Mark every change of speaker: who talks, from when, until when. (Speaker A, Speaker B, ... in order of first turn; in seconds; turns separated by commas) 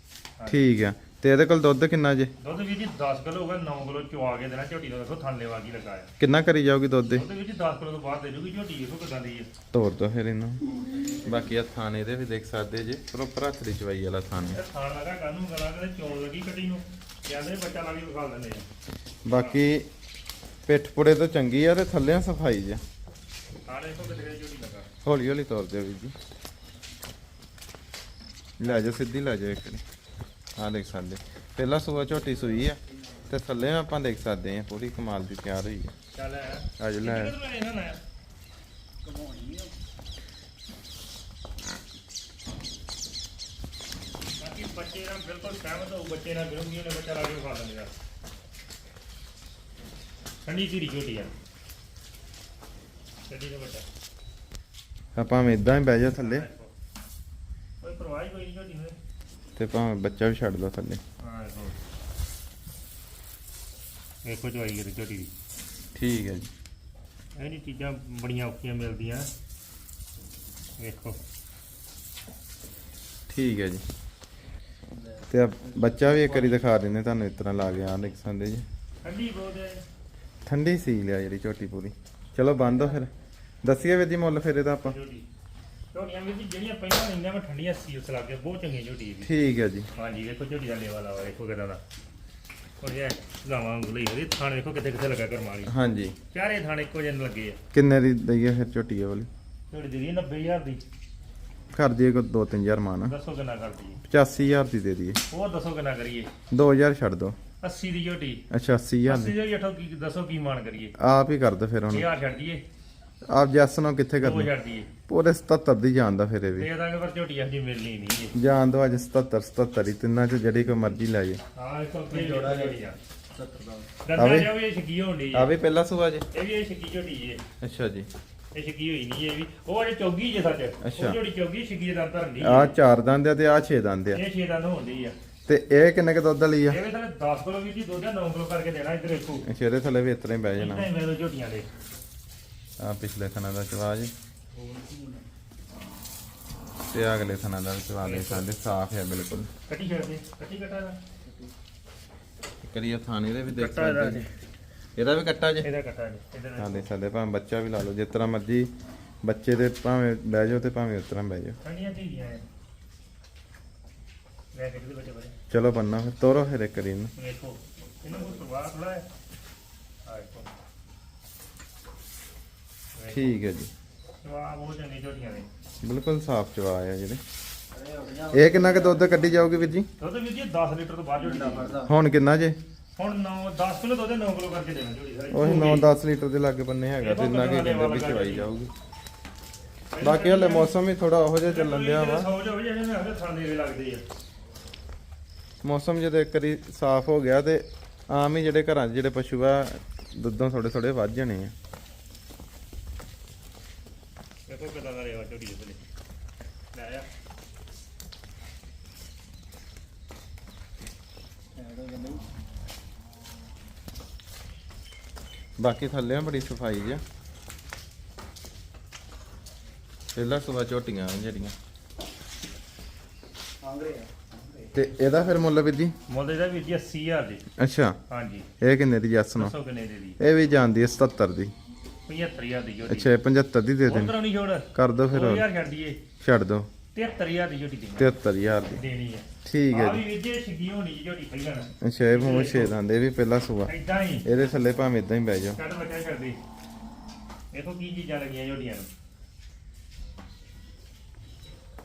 Speaker A: 0.4-0.6, Speaker B: 0.5-2.3, Speaker A: 2.4-6.1, Speaker B: 6.2-7.2, Speaker A: 7.1-9.5, Speaker B: 9.7-14.6, Speaker A: 14.5-18.7, Speaker B: 19.2-19.9, Speaker A: 19.3-19.6, Speaker B: 20.6-22.8, Speaker A: 23.6-24.9, Speaker B: 25.0-26.1, Speaker B: 28.6-29.8, Speaker A: 28.6-28.9, Speaker B: 30.6-35.9, Speaker A: 36.1-38.0, Speaker B: 36.8-37.3, Speaker C: 39.0-39.7, Speaker A: 44.4-47.9, Speaker A: 50.4-51.3, Speaker A: 53.3-53.9, Speaker B: 55.1-56.5, Speaker A: 56.1-56.7, Speaker A: 57.8-59.0, Speaker B: 59.5-61.0, Speaker A: 61.2-61.8, Speaker A: 64.2-65.3, Speaker B: 65.9-66.5, Speaker A: 67.3-69.3, Speaker A: 70.8-71.2, Speaker B: 73.3-73.8, Speaker C: 75.0-76.5, Speaker B: 75.3-78.7, Speaker A: 79.0-79.8, Speaker B: 80.4-83.1, Speaker B: 83.6-85.0, Speaker A: 84.8-85.3, Speaker A: 85.9-89.3, Speaker B: 89.2-89.9, Speaker A: 89.9-91.8, Speaker A: 92.8-95.7, Speaker B: 95.7-96.2, Speaker A: 96.3-97.6, Speaker B: 97.7-99.3, Speaker A: 99.7-100.8, Speaker B: 101.7-103.1, Speaker A: 103.1-104.0, Speaker B: 104.0-105.2, Speaker A: 105.3-106.3, Speaker B: 106.5-107.4, Speaker A: 107.6-108.4, Speaker B: 108.5-109.3, Speaker A: 109.1-110.9, Speaker B: 111.0-112.0, Speaker A: 111.9-112.6, Speaker B: 113.2-114.5, Speaker A: 114.2-114.9, Speaker B: 115.1-116.7, Speaker A: 116.5-118.3, Speaker B: 118.3-121.4, Speaker A: 121.5-123.0, Speaker C: 122.1-123.9, Speaker A: 124.0-125.5, Speaker B: 124.2-124.5, Speaker B: 125.3-126.2, Speaker A: 126.3-127.4, Speaker B: 127.6-128.1, Speaker A: 128.5-132.7, Speaker B: 130.8-131.2, Speaker B: 132.4-134.2, Speaker A: 134.1-135.2, Speaker B: 135.5-136.8, Speaker A: 136.7-139.5, Speaker B: 139.4-140.9, Speaker A: 140.6-141.7, Speaker B: 142.8-144.1, Speaker C: 144.5-145.2, Speaker B: 146.8-149.5, Speaker A: 148.0-148.5, Speaker A: 149.7-151.0, Speaker C: 151.2-151.5, Speaker B: 152.6-154.3, Speaker A: 153.5-154.3, Speaker B: 154.9-155.7, Speaker A: 155.6-156.8, Speaker B: 156.6-158.7, Speaker B: 159.2-161.6, Speaker A: 161.6-162.4, Speaker A: 164.5-165.3, Speaker B: 165.5-167.1, Speaker A: 167.2-169.1, Speaker A: 170.0-170.5, Speaker A: 172.9-173.3, Speaker B: 173.1-173.7, Speaker A: 174.2-175.5, Speaker B: 175.8-177.2, Speaker C: 177.7-179.5, Speaker B: 178.3-179.9, Speaker A: 180.0-181.8, Speaker C: 181.2-181.9, Speaker B: 181.8-182.6, Speaker A: 182.9-185.9, Speaker B: 185.3-188.7, Speaker A: 187.0-188.5, Speaker A: 189.9-190.7, Speaker B: 190.0-192.3, Speaker A: 191.4-194.0, Speaker B: 195.6-201.5, Speaker A: 204.5-205.8, Speaker A: 206.7-207.1, Speaker C: 211.5-212.2, Speaker B: 215.6-217.0, Speaker B: 220.1-221.5, Speaker C: 223.6-224.7, Speaker B: 224.7-225.9, Speaker A: 226.1-227.4, Speaker B: 227.6-228.0, Speaker A: 228.1-228.5, Speaker B: 228.6-229.5, Speaker A: 229.3-230.2, Speaker B: 230.2-231.5, Speaker A: 232.1-233.1, Speaker B: 232.9-234.1, Speaker A: 233.9-236.0, Speaker B: 234.7-235.4, Speaker B: 236.2-236.7, Speaker A: 236.9-238.1, Speaker B: 238.0-238.8, Speaker A: 238.7-242.7, Speaker B: 239.4-240.0, Speaker B: 241.8-243.7, Speaker A: 243.7-244.2, Speaker B: 244.2-245.6, Speaker A: 245.6-246.4, Speaker A: 247.5-248.9